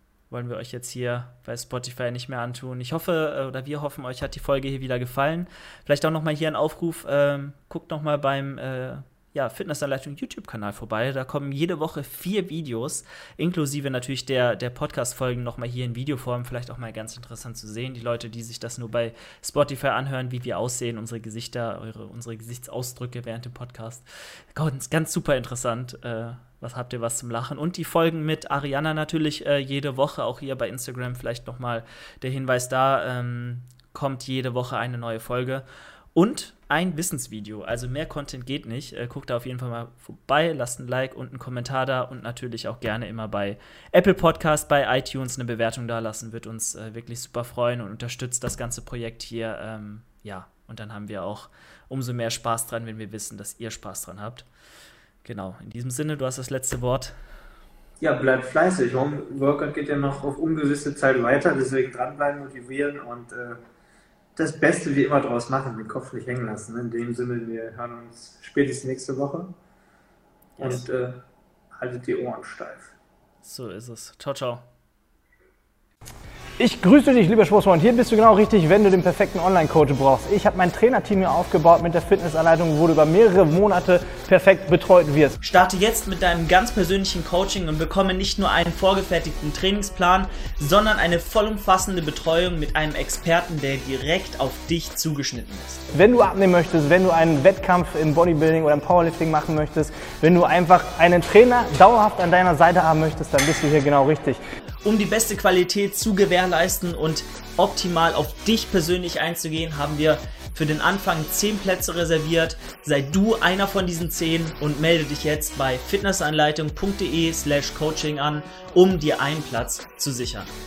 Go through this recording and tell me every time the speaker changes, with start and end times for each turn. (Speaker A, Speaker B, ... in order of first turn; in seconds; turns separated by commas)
Speaker A: 0.3-54.5, Speaker A: 55.2-57.1, Speaker B: 58.0-63.6, Speaker B: 64.3-69.5, Speaker A: 70.6-70.8, Speaker B: 70.6-71.2, Speaker B: 71.7-72.9, Speaker A: 73.4-74.7, Speaker C: 76.6-85.4, Speaker A: 85.4-95.9, Speaker C: 95.9-104.4, Speaker A: 104.8-120.5